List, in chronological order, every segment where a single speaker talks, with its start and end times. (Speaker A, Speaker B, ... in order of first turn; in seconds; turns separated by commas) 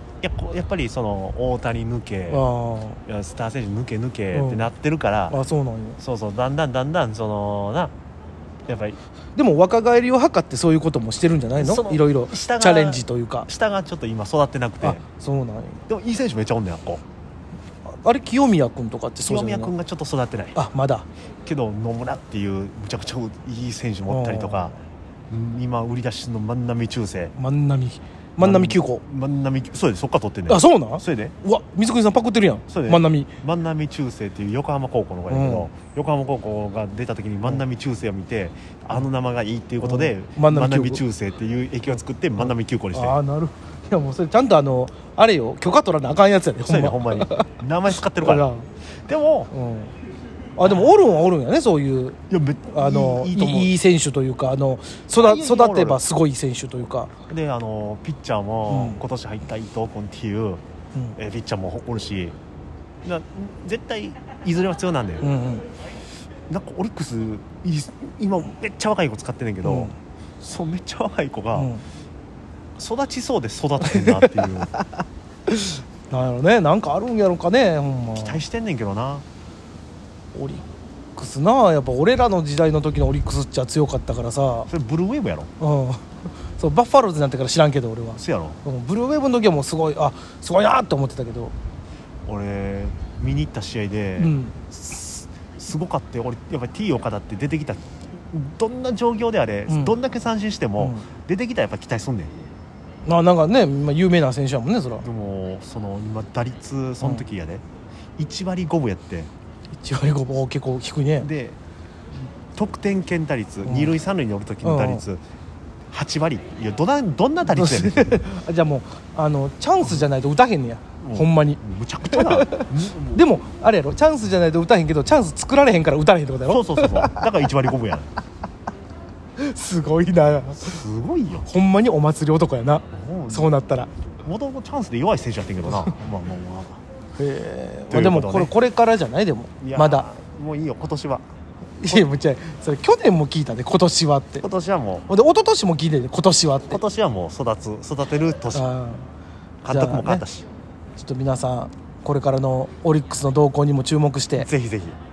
Speaker A: 0.2-2.5, Speaker B: 2.3-3.0, Speaker A: 3.0-5.4, Speaker B: 4.3-4.7, Speaker B: 5.3-6.0, Speaker A: 6.0-7.9, Speaker A: 8.7-9.0, Speaker B: 9.3-13.5, Speaker A: 11.5-15.0, Speaker B: 14.8-15.8, Speaker A: 15.9-17.0, Speaker B: 17.9-19.7, Speaker A: 19.2-20.6, Speaker B: 20.5-21.1, Speaker A: 21.4-24.7, Speaker B: 24.1-24.7, Speaker A: 25.3-27.4, Speaker B: 27.4-29.0, Speaker A: 28.4-31.3, Speaker B: 30.5-33.3, Speaker A: 32.7-43.2, Speaker B: 35.3-35.7, Speaker B: 39.8-41.0, Speaker B: 42.4-47.5, Speaker A: 46.6-48.5, Speaker B: 48.2-48.6, Speaker A: 49.0-49.5, Speaker B: 49.5-49.9, Speaker B: 50.6-52.2, Speaker A: 52.3-53.8, Speaker B: 52.7-57.1, Speaker A: 55.2-56.0, Speaker A: 57.3-60.6, Speaker B: 58.7-59.0, Speaker A: 61.1-62.4, Speaker A: 63.0-65.3, Speaker B: 65.2-65.7, Speaker A: 66.5-71.7, Speaker B: 69.6-69.9, Speaker B: 71.5-71.8, Speaker A: 72.8-74.7, Speaker B: 73.8-74.5, Speaker B: 75.5-78.4, Speaker A: 78.1-79.2, Speaker B: 80.3-80.6, Speaker B: 81.2-84.7, Speaker A: 84.7-85.5, Speaker B: 85.6-91.5, Speaker A: 88.2-88.6, Speaker A: 92.2-102.3, Speaker B: 94.2-94.6, Speaker B: 99.7-100.0, Speaker B: 100.8-101.0, Speaker B: 103.0-105.0, Speaker A: 105.0-107.6, Speaker A: 108.2-109.3, Speaker B: 109.8-111.3, Speaker A: 111.2-111.6, Speaker A: 112.5-115.2, Speaker B: 113.6-114.0, Speaker B: 114.6-115.0, Speaker A: 115.9-118.2, Speaker B: 117.5-127.4, Speaker A: 121.0-123.2, Speaker A: 126.5-128.1, Speaker B: 129.4-130.8, Speaker A: 130.4-131.5, Speaker B: 131.4-133.9, Speaker A: 132.9-133.5, Speaker A: 134.2-136.8, Speaker B: 137.2-140.1, Speaker A: 137.9-138.5, Speaker A: 139.6-141.2, Speaker B: 141.8-144.4, Speaker A: 141.9-142.1, Speaker A: 144.4-145.1, Speaker B: 145.1-146.8, Speaker A: 146.7-148.7, Speaker B: 148.5-149.0, Speaker A: 149.6-150.5, Speaker B: 149.7-150.2, Speaker B: 150.9-154.5, Speaker A: 154.3-154.9